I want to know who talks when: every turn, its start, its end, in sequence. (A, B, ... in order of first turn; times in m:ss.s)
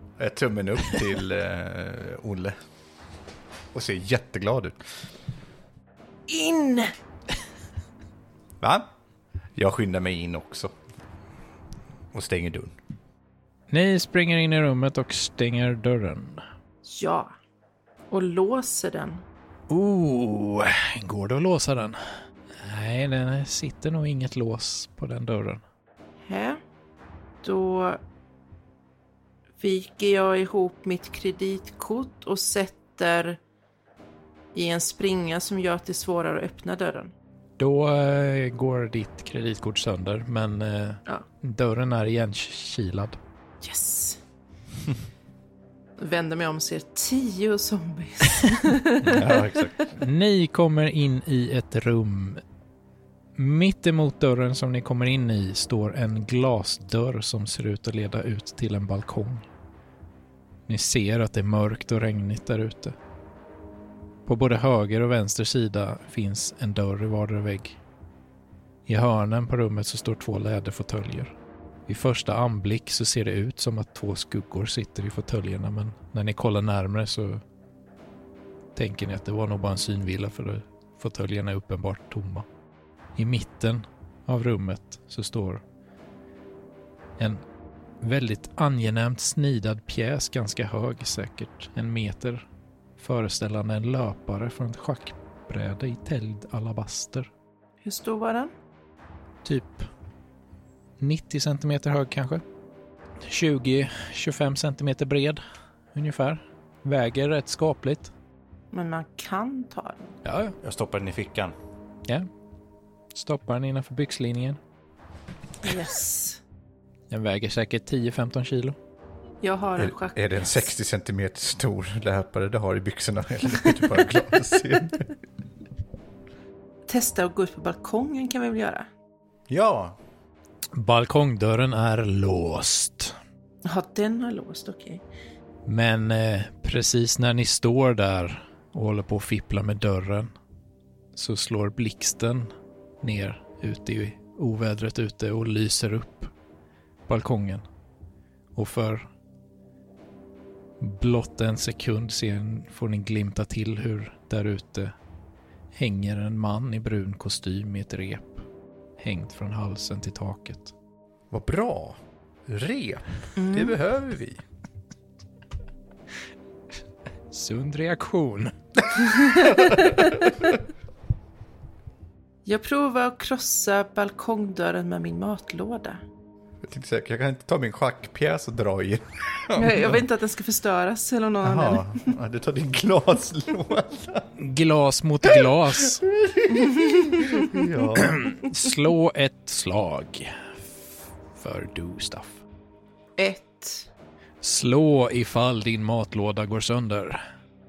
0:00.2-0:02.6 A
0:03.7-0:04.8 A
0:06.3-0:06.9 B
0:08.6-0:08.9 A
0:09.6-0:10.7 A
0:12.1-0:12.7 A
0:13.7-0:16.4 C
0:16.8-0:17.3 B
0:18.1-0:19.2 B
0:19.7-0:22.0 C
0:22.5-0:25.6 C
0:26.2-0:26.6 B
0:27.4-0:28.0 B
0:29.6-0:33.4 B
0:34.5-0:37.1 B
0:37.6-0:43.2 C
0:43.6-0:44.2 B
0:46.0-0:49.5 B
0:49.0-0:49.9 A
0:50.0-0:52.4 C
0:53.4-0:59.4 C
1:00.7-1:03.0 C
1:04.2-1:07.8 C
1:08.8-1:11.3 C
1:11.9-1:17.4 C
1:18.7-1:22.4 C
1:23.2-1:25.6 C
1:27.2-1:27.4 C
1:28.0-1:32.4 C
1:33.0-1:37.3 C
1:37.8-1:38.5 B
1:39.4-1:39.9 C
1:41.0-1:42.4 C
1:43.2-1:45.4 C
1:45.9-1:48.1 C
1:48.7-1:50.2 B
1:50.2-1:50.6 C
1:50.6-1:51.5 A
1:53.1-1:54.6 C
1:55.6-1:56.4 B
1:57.1-1:58.8 C
1:59.4-2:00.7 B
1:59.8-2:05.1 A
2:06.9-2:08.9 B
2:09.5-2:10.0 A
2:10.7-2:13.2 C
2:13.6-2:15.0 B
2:15.6-2:20.3 C
2:21.1-2:26.3 C
2:27.1-2:27.6 C
2:28.5-2:29.1 C
2:30.8-2:34.9 C
2:35.7-2:38.4 C
2:39.0-2:40.7 C
2:41.3-2:42.0 A
2:42.5-2:44.4 A
2:43.4-2:43.8 B
2:47.3-2:50.2 C
2:49.2-2:50.0 B
2:49.6-2:49.9 A
2:52.4-2:56.0 B
2:56.6-3:00.0 A
2:59.5-3:02.0 B
3:01.4-3:04.3 A
3:04.4-3:06.0 C
3:05.9-3:08.3 A
3:06.5-3:07.6 B
3:08.0-3:12.4 C
3:13.2-3:13.9 B
3:14.4-3:17.2 C